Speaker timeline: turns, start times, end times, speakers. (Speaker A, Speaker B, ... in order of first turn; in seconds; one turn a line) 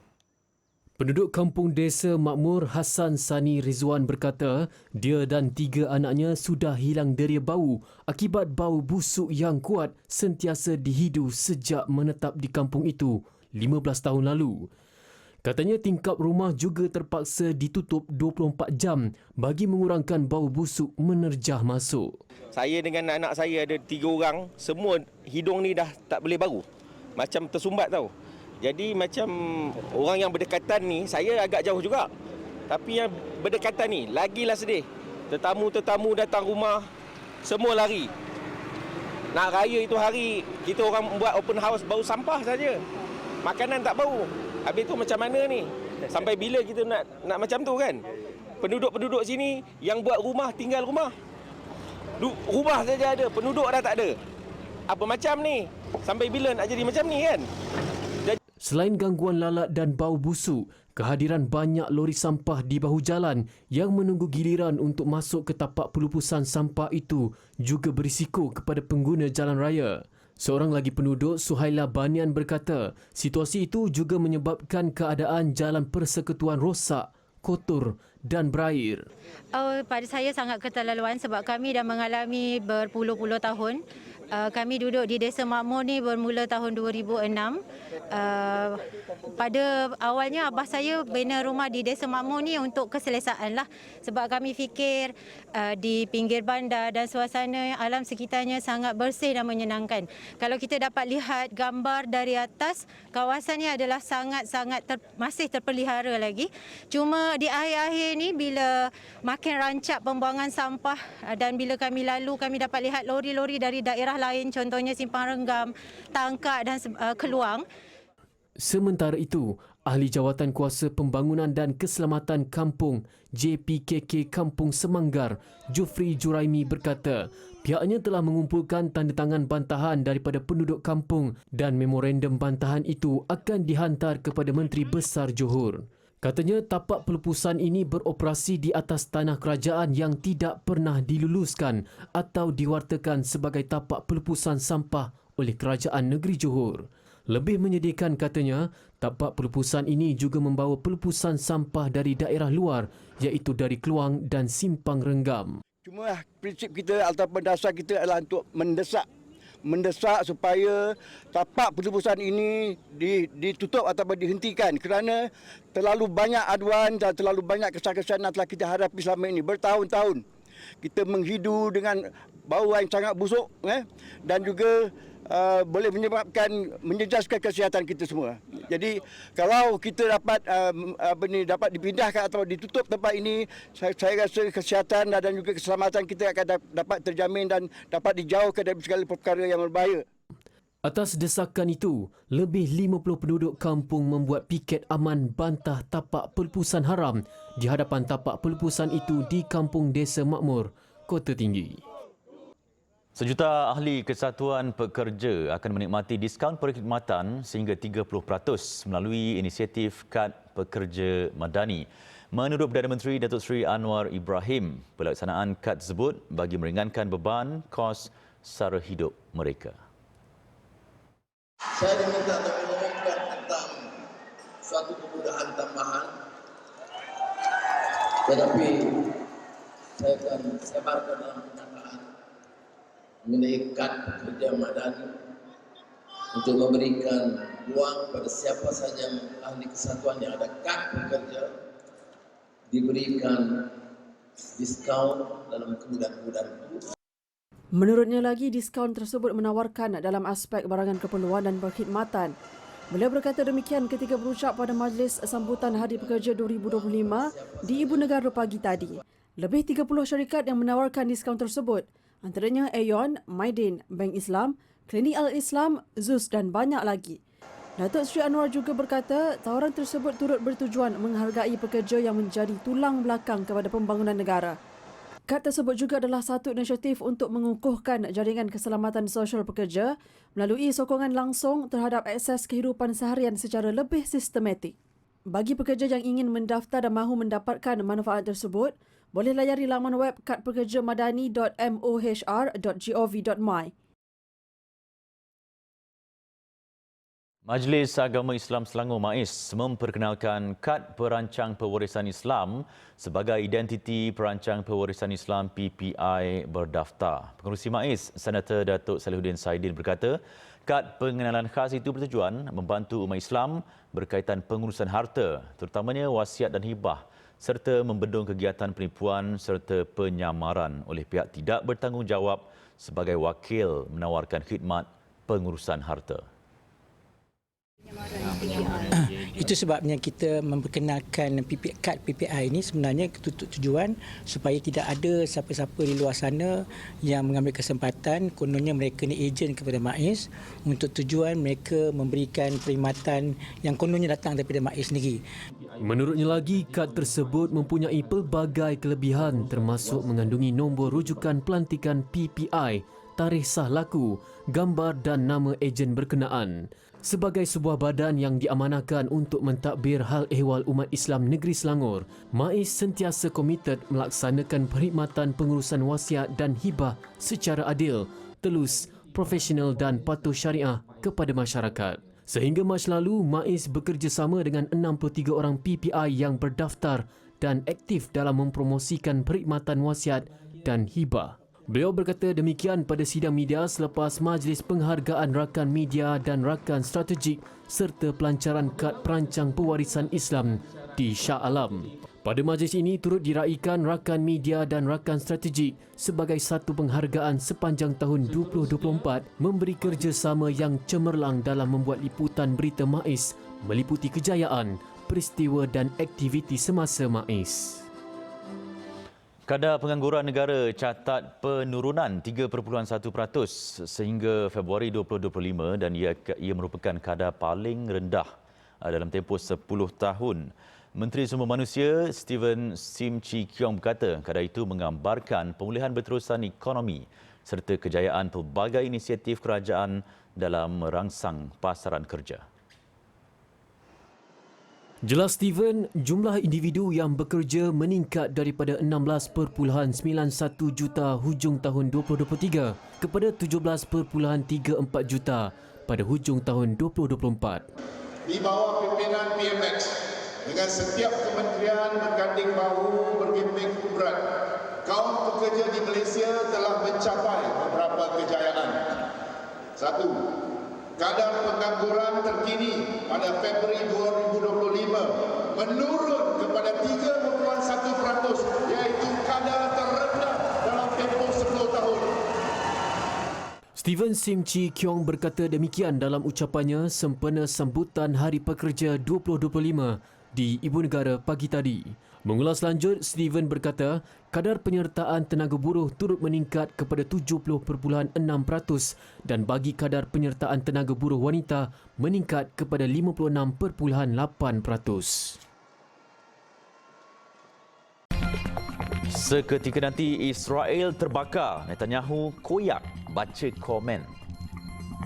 Speaker A: 1.0-14.7
Speaker A: 15.4-22.1
Speaker B: 22.5-26.6
Speaker B: 27.2-28.1
Speaker B: 28.6-32.1
Speaker B: 32.7-36.9
Speaker B: 37.4-38.1
Speaker B: 39.3-42.8
Speaker B: 43.4-48.0
Speaker B: 48.6-51.1
Speaker B: 52.2-54.1
Speaker B: 54.9-57.5
Speaker A: 58.6-79.1
Speaker C: 79.5-117.6
Speaker A: 118.6-155.6
Speaker D: 155.8-159.1
Speaker D: 159.6-170.2
Speaker D: 170.8-190.0
Speaker A: 190.8-201.8
Speaker E: 203.1-219.8
Speaker F: 221.8-223.9
Speaker F: 224.6-226.2
Speaker F: 228.3-229.1
Speaker F: 230.0-232.1
Speaker F: 233.2-235.1
Speaker F: 236.3-241.5
Speaker F: 242.7-243.7
Speaker F: 244.6-246.8
Speaker G: 247.7-252.3
Speaker G: 252.9-267.2
Speaker F: 255.7-259.0
Speaker G: 267.8-274.6
Speaker G: 275.3-284.7
Speaker G: 285.3-293.7
Speaker E: 297.4-326.2
Speaker H: 328.4-345.2
Speaker A: 345.8-407.9
Speaker E: 409.5-418.3
Speaker E: 418.8-432.4
Speaker A: 435.0-447.6
Speaker I: 448.2-459.1
Speaker I: 459.8-460.4
Speaker I: 461.0-472.2
Speaker A: 473.8-495.4
Speaker E: 499.1-504.1